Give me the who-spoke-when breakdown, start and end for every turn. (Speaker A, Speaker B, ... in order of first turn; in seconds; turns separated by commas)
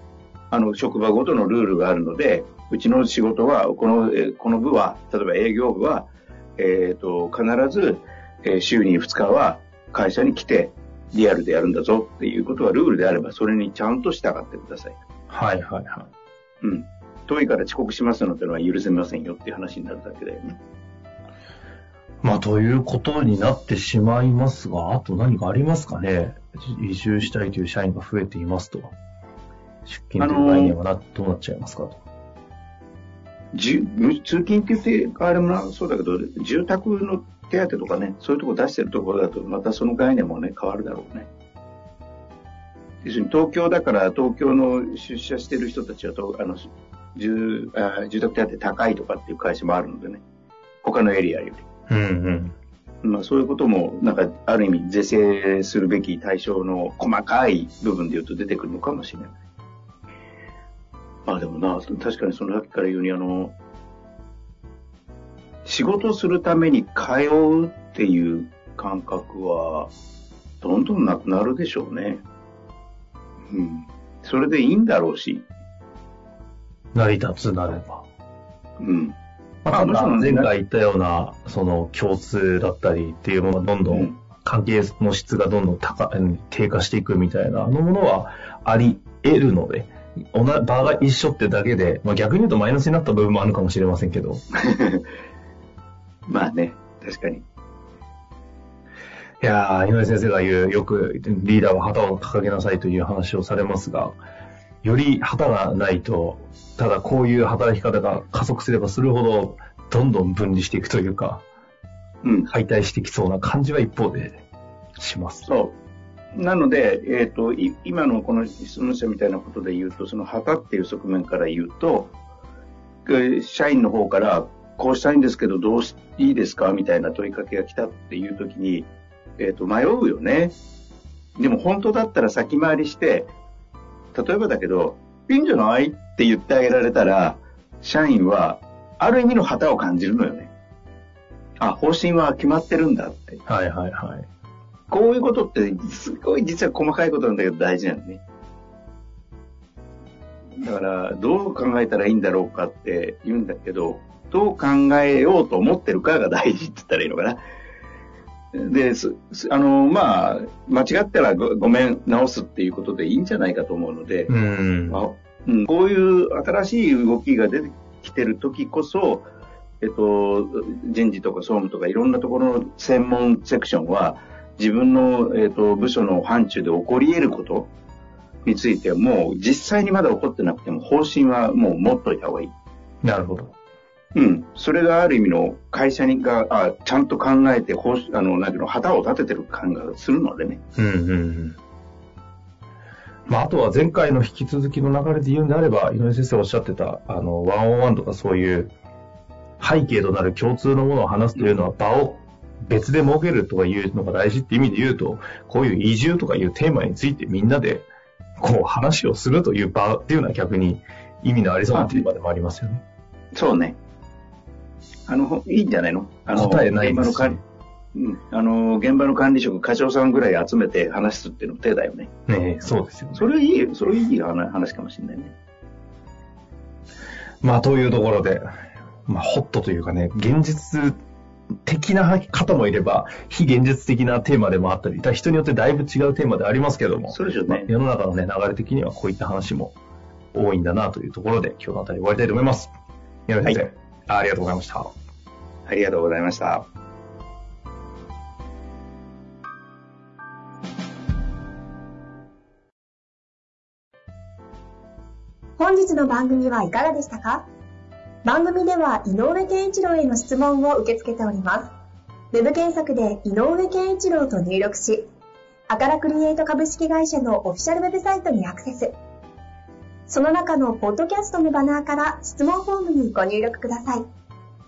Speaker A: 0.5-15.0, Speaker B: 15.3-16.1, Speaker A: 16.6-20.6, Speaker B: 22.2-28.9, Speaker B: 29.9-32.0, Speaker A: 30.2-30.8, Speaker A: 33.5-41.3, Speaker A: 43.0-46.6, Speaker A: 47.1-50.2, Speaker A: 50.8-51.6, Speaker B: 51.9-52.5, Speaker A: 53.0-59.3, Speaker A: 61.2-63.5, Speaker A: 65.6-69.9, Speaker A: 70.6-72.2, Speaker A: 73.5-75.4, Speaker B: 76.9-78.0, Speaker A: 78.8-79.2, Speaker B: 79.6-94.4, Speaker A: 79.7-80.5, Speaker A: 94.6-95.0, Speaker A: 96.3-97.4, Speaker B: 99.4-104.2, Speaker B: 104.8-111.4, Speaker A: 112.2-112.5, Speaker B: 112.5-114.4, Speaker B: 115.0-115.5, Speaker A: 115.5-115.8, Speaker A: 116.3-122.1, Speaker A: 123.0-130.6, Speaker A: 131.4-133.3, Speaker A: 134.1-140.5, Speaker A: 141.6-143.4, Speaker B: 143.5-144.3, Speaker A: 144.9-148.2, Speaker A: 150.6-157.4, Speaker A: 158.5-164.3, Speaker B: 164.3-165.0, Speaker A: 164.9-169.3, Speaker A: 169.8-177.7, Speaker A: 178.4-182.5, Speaker B: 183.0-183.5, Speaker A: 184.1-190.6, Speaker B: 190.8-191.6, Speaker B: 193.3-198.7, Speaker B: 199.6-207.8, Speaker B: 208.4-212.8, Speaker A: 213.3-213.8, Speaker A: 215.1-217.3, Speaker B: 216.3-217.4, Speaker A: 217.9-222.1, Speaker B: 222.3-223.3, Speaker A: 223.1-225.3, Speaker B: 227.4-228.4, Speaker B: 229.1-231.0, Speaker B: 231.7-239.8, Speaker A: 237.1-237.7, Speaker B: 240.3-242.7, Speaker B: 243.3-244.9, Speaker A: 245.7-246.6, Speaker C: 255.6-257.5, Speaker C: 258.2-261.7, Speaker C: 262.3-265.1, Speaker C: 265.7-268.9, Speaker C: 270.1-274.0